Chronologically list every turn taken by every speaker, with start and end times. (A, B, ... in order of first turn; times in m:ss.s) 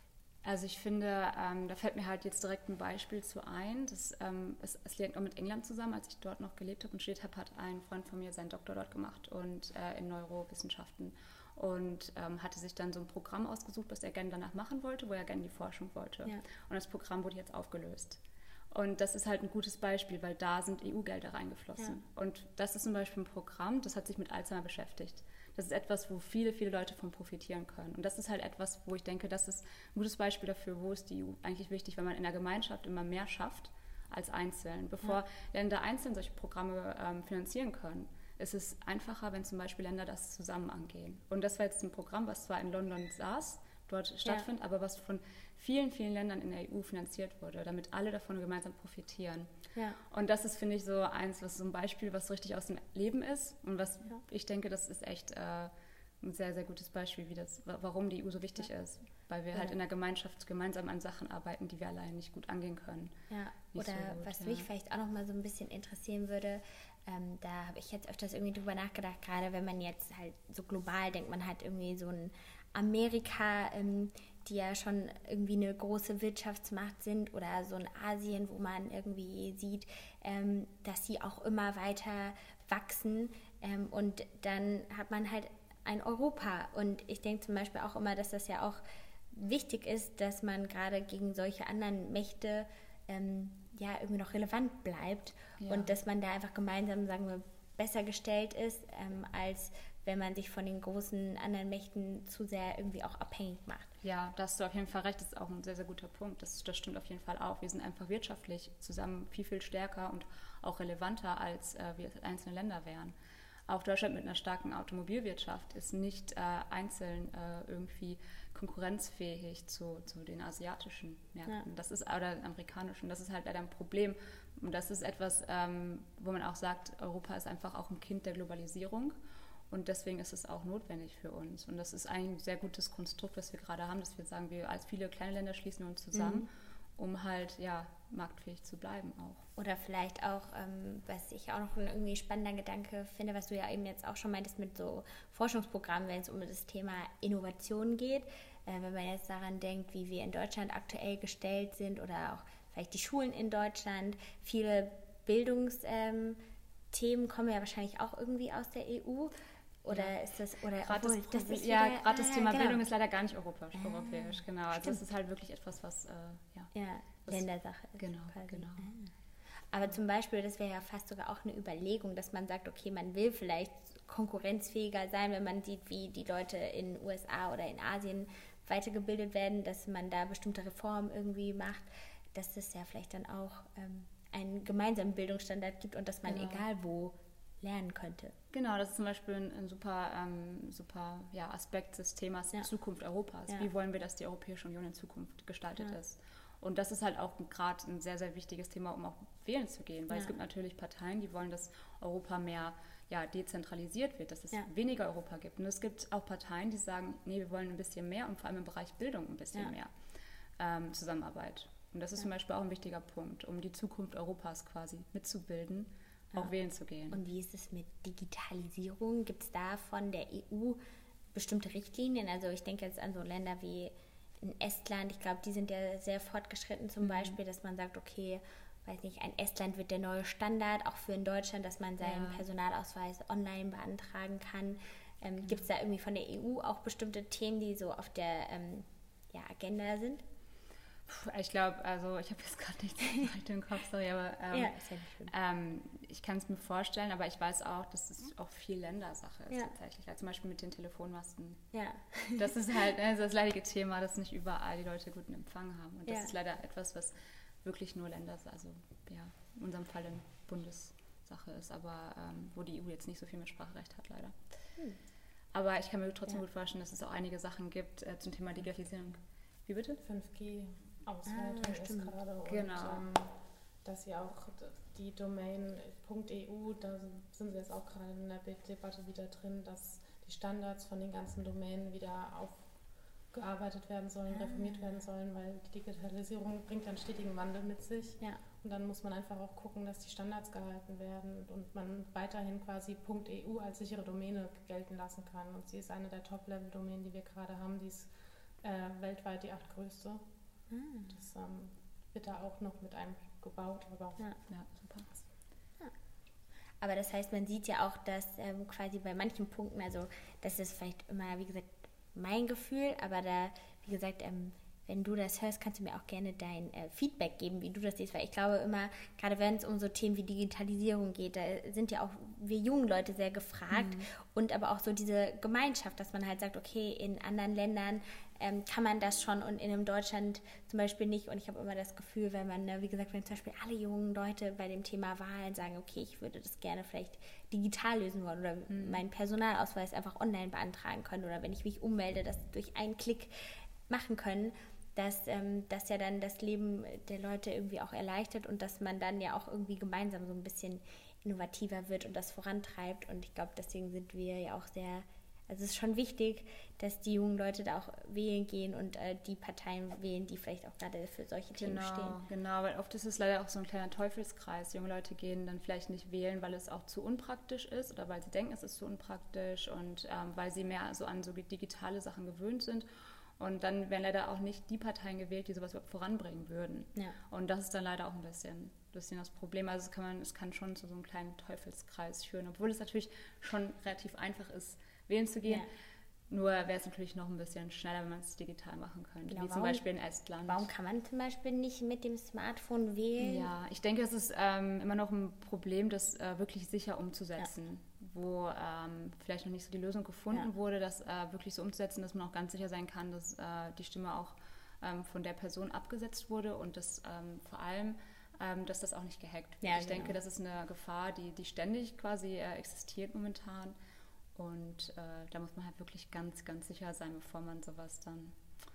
0:00.4-0:49.5 A
0:49.7-0:50.0 B
0:50.0-1:03.1 A
1:03.3-1:43.9 B
1:03.7-1:04.7 A
1:35.6-1:35.9 A
1:44.0-1:53.1 A
1:53.7-2:09.2 A
2:09.7-2:19.4 A
2:16.1-2:16.4 B
2:19.6-2:36.4 B
2:36.9-2:39.3 B
2:39.8-2:42.8 B
2:40.8-2:46.7 A
2:43.7-2:45.0 B
2:46.7-2:49.1 B
2:48.0-2:48.9 A
2:49.7-3:08.3 B
3:06.2-3:06.6 A
3:08.5-3:29.9 A
3:30.6-3:37.2 A
3:37.1-3:40.8 B
3:41.3-4:00.2 B
3:47.0-3:47.4 A
3:52.0-3:52.4 A
4:01.1-4:11.6 A
4:04.5-4:05.3 B
4:11.7-4:12.5 B
4:12.4-4:24.3 A
4:16.1-4:16.3 B
4:25.5-4:30.0 A
4:30.0-5:04.3 C
4:31.3-4:32.1 B
4:32.4-4:33.0 A
4:44.3-4:44.8 B
5:00.7-5:01.1 B
5:04.5-5:05.3 A
5:06.8-6:02.2 B
5:23.7-5:24.0 A
5:38.7-5:39.0 A
6:01.6-6:12.8 A
6:13.4-6:25.7 A
6:26.3-6:30.6 A
6:29.3-6:29.8 B
6:30.4-6:33.5 B
6:33.2-6:53.7 A
6:49.6-6:50.1 B
6:54.3-6:58.4 A